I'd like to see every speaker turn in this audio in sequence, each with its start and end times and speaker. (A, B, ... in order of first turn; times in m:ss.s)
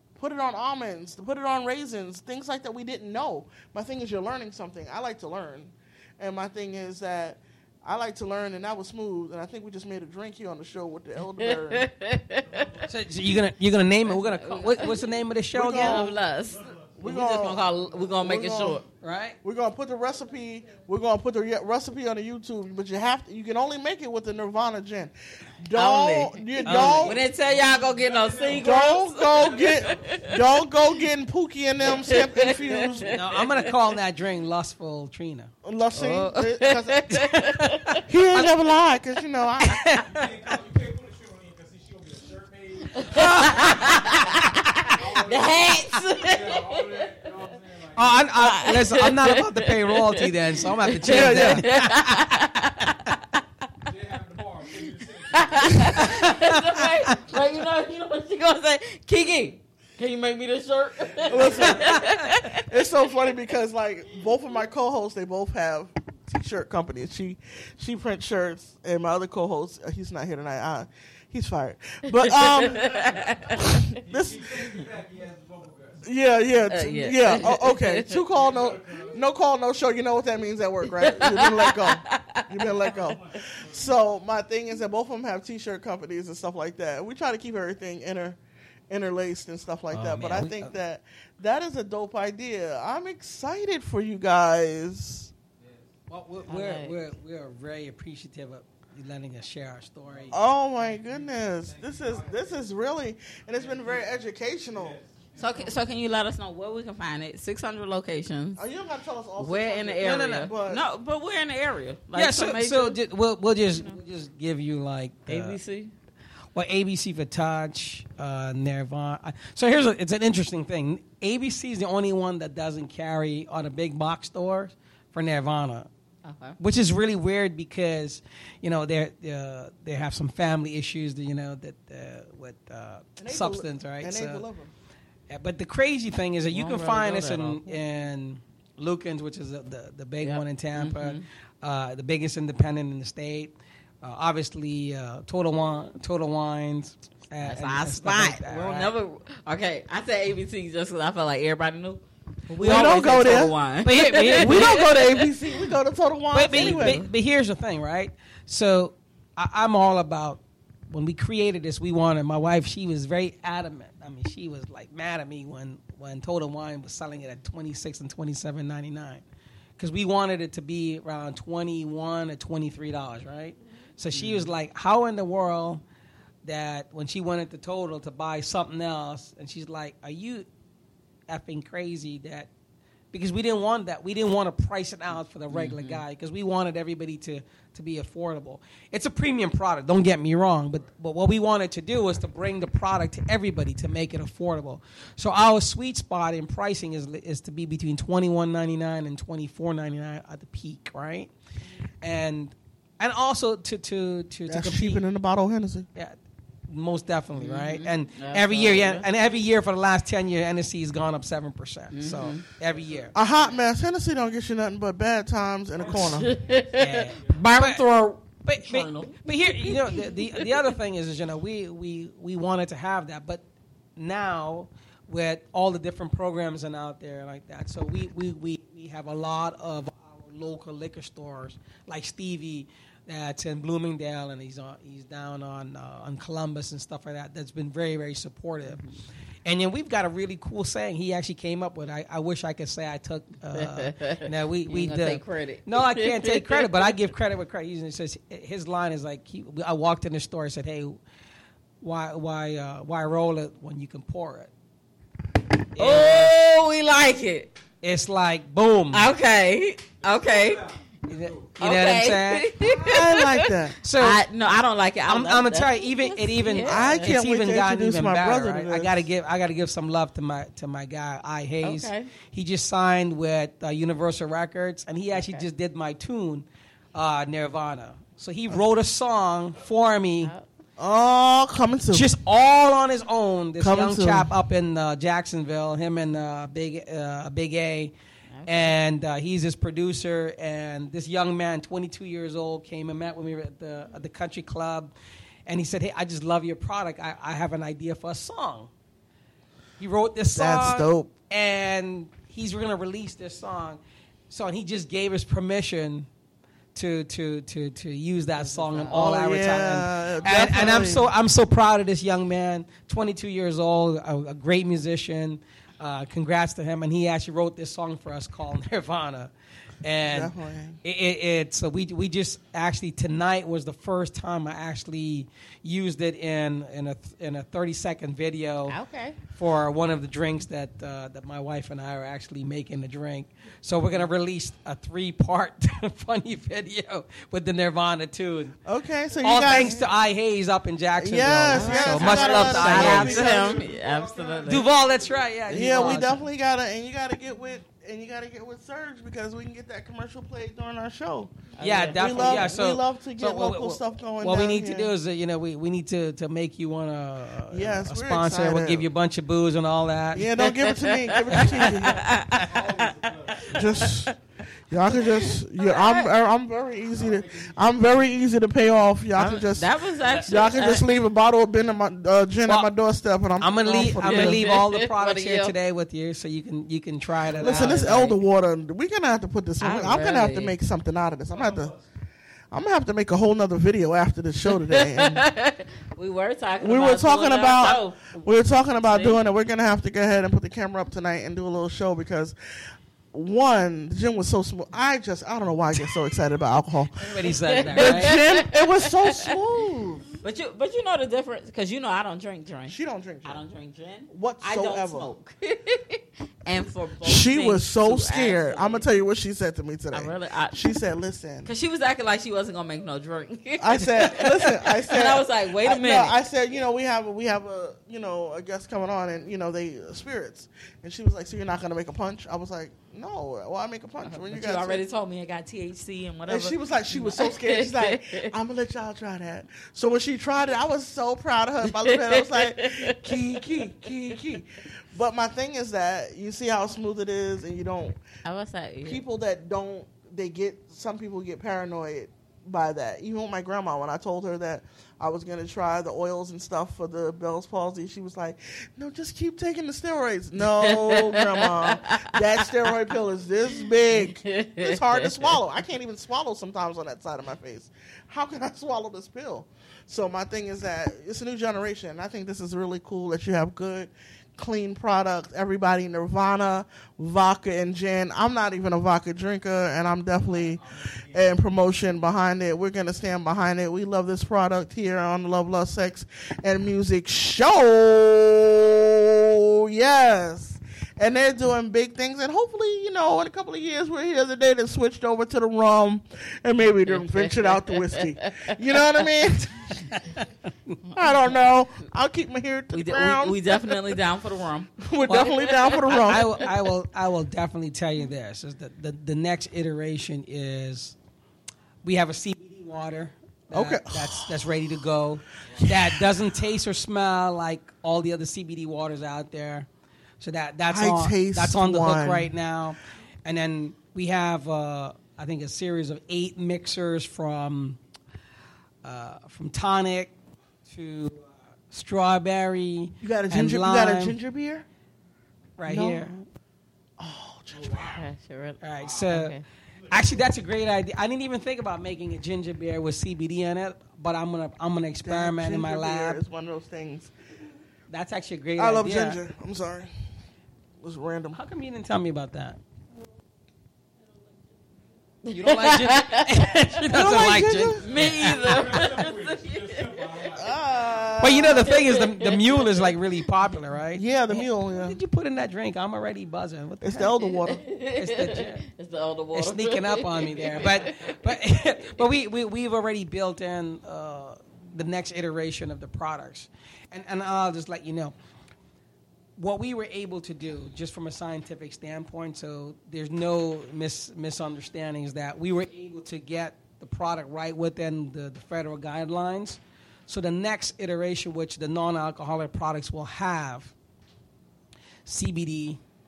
0:00.2-0:11.9 A
0:11.4-0:12.7 B
0:12.4-0:12.9 C
0:12.9-0:16.2 D
0:14.0-0:15.0 B
0:15.5-0:16.1 A
0:15.7-0:18.9 B
0:16.5-0:18.1 C
0:17.0-0:18.8 A
0:19.0-0:19.4 D
0:19.4-0:27.2 A
0:25.7-0:30.3 B
0:26.6-0:27.1 D
0:27.0-0:30.4 C
0:28.5-0:33.2 A
0:31.9-0:33.5 B
0:33.1-0:35.5 D
0:35.6-0:37.3 A
0:36.0-0:38.0 B
0:37.9-0:38.5 D
0:38.1-0:39.8 A
0:39.6-0:40.3 D
0:40.0-0:48.6 C
0:43.0-0:47.1 B
0:43.1-0:43.8 D
0:48.0-0:52.5 D
0:48.4-0:50.2 B
0:50.9-0:53.1 B
0:51.0-0:51.6 A
0:53.9-0:56.3 C
0:55.3-1:02.6 B
0:55.8-0:56.6 D
0:57.3-0:57.6 C
1:01.0-1:02.0 C
1:01.2-1:02.0 A
1:01.6-1:02.3 D
1:02.6-1:14.8 A
1:12.1-1:13.8 B
1:13.0-1:16.0 C
1:16.0-1:35.3 A
1:16.7-1:18.2 B
1:18.3-1:19.2 C
1:20.9-1:22.7 B
1:22.8-1:23.9 C
1:29.9-1:30.7 D
1:35.6-1:35.9 C
1:36.1-1:40.4 D
1:36.5-1:37.0 B
1:40.1-1:42.6 C
1:40.3-1:45.0 A
1:43.5-1:45.8 C
1:45.4-1:48.6 B
1:48.6-1:50.8 A
1:49.4-1:53.0 B
1:50.0-1:50.5 D
1:52.1-1:55.6 D
1:53.7-1:54.0 B
1:55.3-1:55.9 B
1:56.5-2:05.9 D
2:06.2-2:06.6 B
2:06.6-2:14.4 D
2:13.2-2:14.7 A
2:15.3-2:28.9 D
2:16.5-2:17.8 B
2:20.2-2:21.2 B
2:27.4-2:35.7 B
2:32.6-2:33.3 D
2:32.6-2:33.5 A
2:33.8-2:34.9 D
2:34.3-2:37.0 A
2:36.3-2:49.2 D
2:36.5-2:37.1 B
2:49.8-2:55.8 D
2:54.1-2:54.5 B
2:56.4-3:00.5 D
3:01.3-3:02.5 D
3:03.1-3:21.3 D
3:05.5-3:06.0 B
3:22.0-3:25.0 D
3:24.5-3:25.9 A
3:26.7-3:33.1 D
3:27.4-3:29.1 B
3:31.9-3:32.4 B
3:32.7-3:33.5 C
3:33.1-3:36.3 A
3:35.8-3:37.4 C
3:35.9-3:39.2 B
3:36.8-3:37.8 D
3:38.4-3:43.4 D
3:39.7-3:40.0 A
3:39.9-3:40.5 B
3:44.0-3:58.8 D
3:58.7-3:59.0 B
3:59.4-4:11.0 D
4:03.5-4:06.6 B
4:11.8-4:14.5 D
4:15.8-4:16.4 D
4:15.8-4:17.6 B
4:17.8-4:19.1 D
4:18.9-4:20.6 B
4:20.0-4:21.5 C
4:21.1-4:22.5 D
4:21.6-4:27.2 B
4:22.6-4:23.8 A
4:23.8-4:24.2 D
4:25.1-4:40.3 D
4:26.6-4:29.1 A
4:31.6-4:32.1 B
4:35.1-4:35.5 B
4:40.2-4:40.5 B
4:40.8-4:42.1 A
4:41.9-4:47.9 D
4:43.6-4:44.3 A
4:48.3-4:48.8 B
4:48.5-4:54.9 D
4:55.5-4:58.7 D
4:59.8-5:06.1 D
5:00.4-5:01.1 A
5:06.8-5:38.6 D
5:08.4-5:09.5 B
5:08.9-5:11.1 A
5:10.3-5:10.6 B
5:20.0-5:20.8 A
5:28.7-5:29.2 B
5:38.6-5:39.9 A
5:39.2-5:43.2 D
5:41.0-5:43.6 A
5:41.5-5:44.7 B
5:42.1-5:45.6 C
5:44.4-5:46.1 D
5:45.5-5:51.4 A
5:45.5-5:46.1 B
5:51.5-5:52.6 B
5:51.6-6:00.3 D
5:51.9-5:54.9 A
5:57.5-5:58.9 A
6:00.1-6:02.0 A
6:00.4-6:04.1 B
6:02.4-6:04.1 C
6:03.5-6:04.2 A
6:04.7-6:14.5 A
6:04.8-6:06.1 B
6:06.9-6:08.1 C
6:09.2-6:11.0 B
6:13.4-6:18.1 D
6:14.0-6:15.5 B
6:17.3-6:17.6 C
6:17.4-6:21.7 A
6:17.6-6:18.2 B
6:19.6-6:20.6 B
6:21.3-6:21.9 C
6:22.5-6:25.2 A
6:24.6-6:28.0 B
6:26.6-6:32.4 A
6:28.9-6:29.2 B
6:33.1-6:40.1 A
6:37.0-6:38.1 D
6:37.5-6:39.3 B
6:40.2-6:48.9 B
6:42.7-6:43.4 A
6:44.1-6:45.1 A
6:47.0-6:51.5 A
6:49.9-6:50.6 B
6:51.4-6:56.2 B
6:53.6-7:04.8 A
7:04.0-7:08.3 B
7:06.3-7:18.0 A
7:11.7-7:13.2 B
7:18.2-7:19.0 B
7:18.8-8:09.8 A
7:30.6-7:32.2 B
7:34.4-7:35.1 B
7:50.2-7:51.4 C
8:09.8-8:10.8 D
8:10.9-8:11.3 B
8:11.0-8:13.8 A
8:12.7-8:16.2 B
8:14.8-8:16.5 A
8:16.1-8:21.0 D
8:21.8-8:29.7 D
8:23.5-8:24.7 A
8:25.6-8:26.1 A
8:30.2-8:37.8 D
8:30.7-8:32.3 A
8:38.8-8:40.1 D
8:40.6-8:44.2 D
8:43.0-8:44.7 A
8:45.6-8:46.3 D
8:45.7-8:46.1 A
8:47.0-8:47.9 A
8:47.5-8:48.1 C
8:47.7-8:49.4 B
8:48.6-8:49.4 D
8:48.8-8:49.1 C
8:49.8-8:50.4 C
8:49.9-8:56.2 D
8:55.0-8:57.1 A
8:57.9-8:59.2 D
8:58.6-8:59.9 A
9:00.8-9:01.4 A
9:01.4-9:02.6 D
9:05.2-9:06.6 B
9:05.3-9:08.8 D
9:06.9-9:07.9 A
9:07.8-9:10.3 B
9:08.4-9:11.2 C
9:10.4-9:11.8 A
9:11.2-9:17.2 D
9:11.8-9:12.8 B
9:14.0-9:15.0 A
9:16.8-9:17.6 A
9:17.6-9:21.0 B
9:18.0-9:18.7 D
9:19.3-9:28.2 D
9:20.4-9:21.1 C
9:29.4-9:43.8 D
9:45.1-9:45.8 D